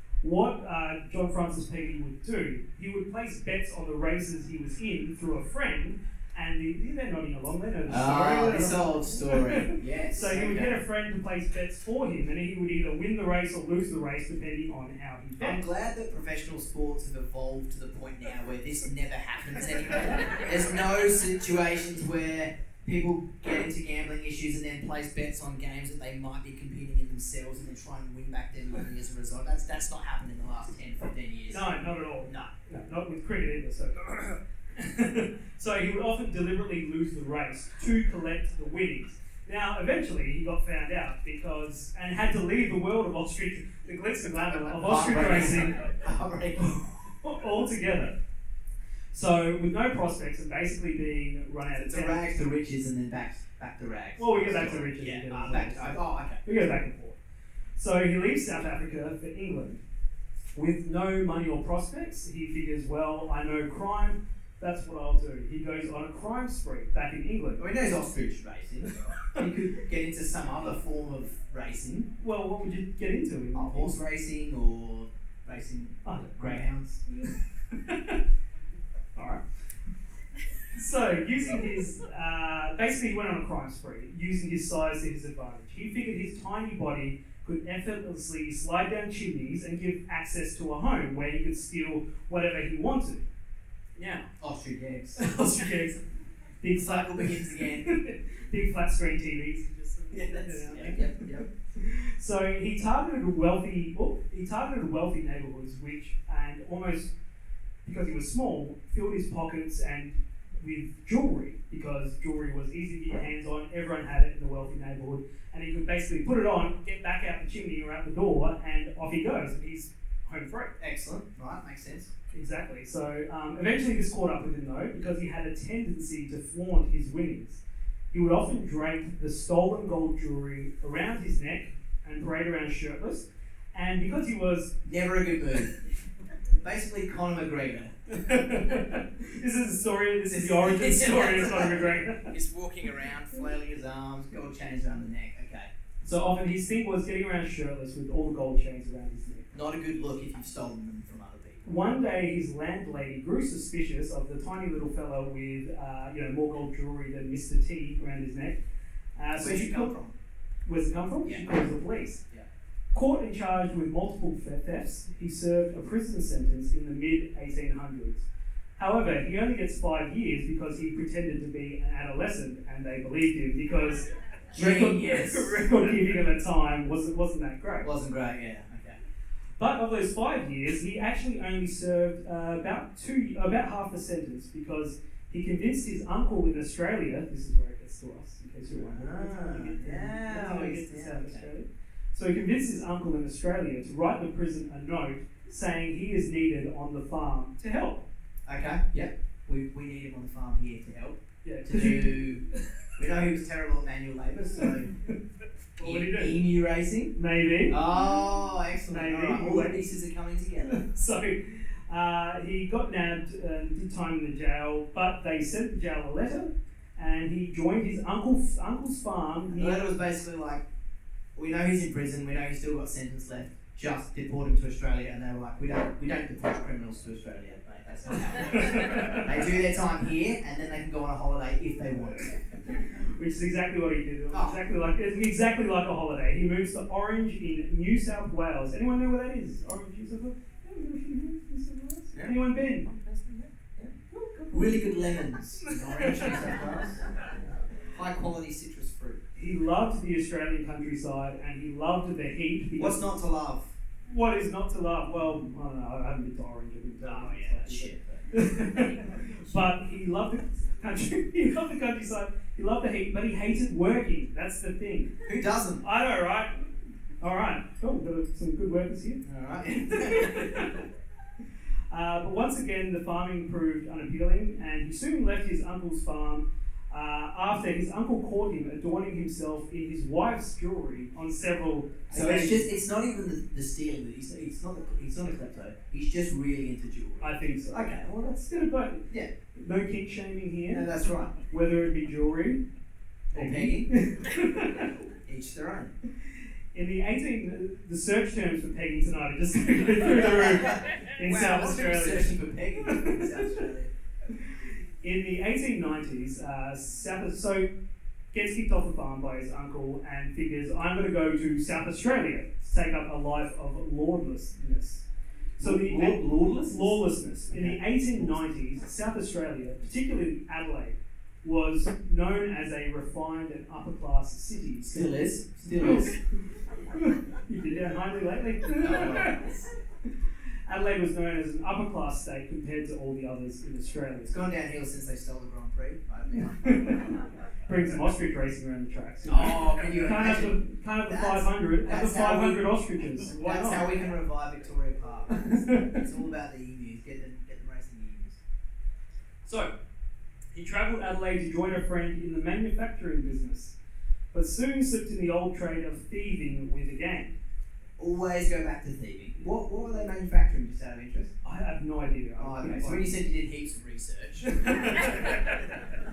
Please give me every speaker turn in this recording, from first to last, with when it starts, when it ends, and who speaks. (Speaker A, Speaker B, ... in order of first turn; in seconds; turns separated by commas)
Speaker A: 0.2-15.7, Speaker B: 7.9-10.8, Speaker B: 15.4-31.7, Speaker A: 31.5-45.7, Speaker B: 32.2-32.5, Speaker B: 44.5-46.8, Speaker A: 46.6-48.1, Speaker A: 49.1-52.2, Speaker B: 51.7-56.4, Speaker A: 54.2-57.2, Speaker A: 57.8-59.8, Speaker A: 60.5-67.6, Speaker B: 67.6-72.1, Speaker A: 72.2-73.9, Speaker B: 73.5-77.0, Speaker A: 76.0-76.6, Speaker A: 77.2-78.2, Speaker A: 79.2-79.4, Speaker A: 80.7-93.2, Speaker A: 94.0-94.3, Speaker B: 94.4-95.2, Speaker A: 95.2-96.0, Speaker A: 96.6-107.1, Speaker B: 96.8-97.9, Speaker B: 100.1-101.5, Speaker A: 107.8-120.7, Speaker B: 120.8-122.1, Speaker A: 122.3-134.7, Speaker B: 134.8-135.7, Speaker B: 136.6-137.9, Speaker A: 138.1-142.3, Speaker B: 140.3-145.7, Speaker A: 146.0-149.5, Speaker B: 149.5-151.7, Speaker A: 151.6-158.6, Speaker A: 159.2-159.9, Speaker B: 159.4-160.1, Speaker A: 160.7-162.2, Speaker A: 162.9-168.2, Speaker A: 168.8-177.9, Speaker B: 174.5-175.7, Speaker B: 177.8-179.0, Speaker A: 179.6-198.1, Speaker B: 188.7-191.5, Speaker B: 198.4-202.4, Speaker A: 201.4-202.3, Speaker B: 203.0-204.9, Speaker A: 204.6-205.1, Speaker A: 205.8-206.4, Speaker B: 205.8-207.1, Speaker A: 207.1-207.8, Speaker B: 207.7-210.8, Speaker A: 208.9-209.8, Speaker A: 210.6-219.9, Speaker B: 219.5-220.6, Speaker B: 221.3-232.4, Speaker A: 228.5-229.3, Speaker A: 233.0-242.9, Speaker B: 234.3-234.6, Speaker B: 242.1-243.9, Speaker A: 244.1-244.6, Speaker B: 244.5-247.1, Speaker A: 245.6-246.4, Speaker B: 247.8-249.2, Speaker A: 249.3-253.0, Speaker B: 252.8-253.7, Speaker A: 254.1-265.2, Speaker B: 257.0-259.6, Speaker B: 265.2-265.8, Speaker A: 265.8-266.7, Speaker A: 267.2-269.2, Speaker B: 269.2-270.7, Speaker A: 269.9-270.9, Speaker A: 271.9-282.7, Speaker B: 282.1-288.4, Speaker A: 287.2-290.9, Speaker B: 290.7-291.3, Speaker A: 291.5-292.6, Speaker B: 293.3-293.9, Speaker A: 293.3-295.0, Speaker B: 295.2-295.9, Speaker A: 296.7-303.6, Speaker B: 300.0-303.9, Speaker A: 304.4-307.7, Speaker A: 308.3-315.0, Speaker B: 315.6-318.4, Speaker A: 315.6-325.1, Speaker B: 324.8-326.1, Speaker A: 325.7-326.2, Speaker A: 326.9-329.5, Speaker B: 328.7-329.6, Speaker A: 330.7-334.4, Speaker B: 334.3-337.0, Speaker A: 336.3-343.9, Speaker B: 339.2-342.7, Speaker B: 343.2-348.4, Speaker A: 345.4-346.0, Speaker A: 349.4-349.7, Speaker A: 350.5-353.7, Speaker A: 354.3-357.4, Speaker B: 358.0-361.3, Speaker A: 361.4-363.1, Speaker B: 362.4-365.2, Speaker A: 364.5-365.7